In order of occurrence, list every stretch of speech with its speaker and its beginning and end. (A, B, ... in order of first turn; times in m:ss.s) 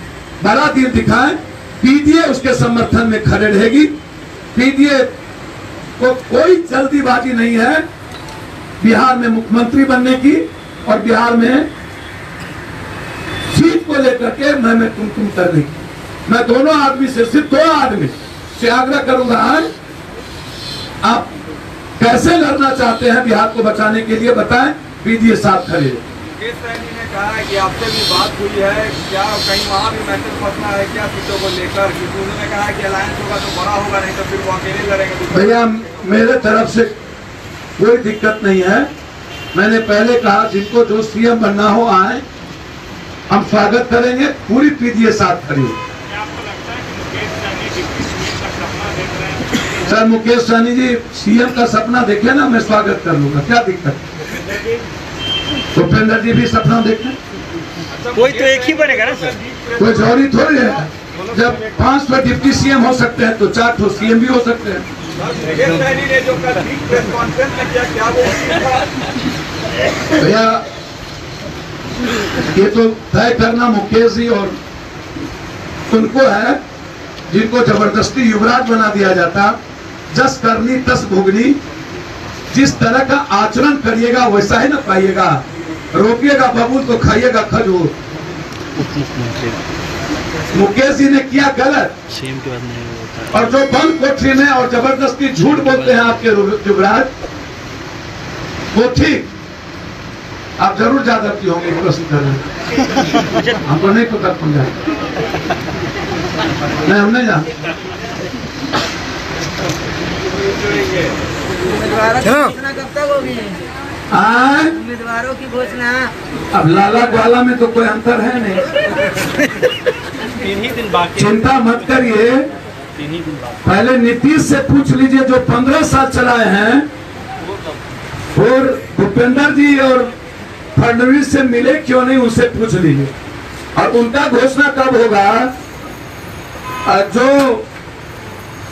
0:00.4-0:03.9 A
0:04.5-0:05.1 A
0:06.0-0:07.8 A
0:08.8-0:11.7 A
0:13.5-0:19.7 A
0:21.0-0:21.3 A
0:22.0-0:26.0 A
0:26.4-0:35.5 B
0:35.3-0:36.9 A
0:37.8-0:38.9 A
0:39.5-0:42.2 A
0:43.3-0:45.8 A
0:46.2-0:49.4 C
0:49.8-0:54.0 A
0:55.7-0:57.2 A
0:57.9-0:59.8 B
0:58.2-0:59.4 C
0:59.8-1:04.9 A
1:05.2-1:09.1 B
1:10.1-1:10.6 A
1:12.5-1:14.6 A
1:15.9-1:16.6 A
1:17.3-1:19.6 A
1:20.1-1:21.6 A
1:22.5-1:27.9 A
1:28.8-1:29.6 D
1:30.5-1:32.0 A
1:32.1-1:33.4 D
1:33.3-1:37.1 A
1:35.6-1:36.1 D
1:38.7-1:39.3 A
1:40.6-1:42.4 A
1:43.6-1:44.7 A
1:46.8-1:47.5 A
1:52.0-1:53.5 E
1:54.1-1:54.9 A
1:55.0-1:56.1 E
1:56.5-1:58.6 A
2:00.4-2:01.1 C
2:01.1-2:02.5 A
2:03.0-2:03.5 C
2:03.6-2:06.9 A
2:08.4-2:10.1 A
2:10.8-2:13.1 A
2:13.8-2:15.5 A
2:16.8-2:17.7 A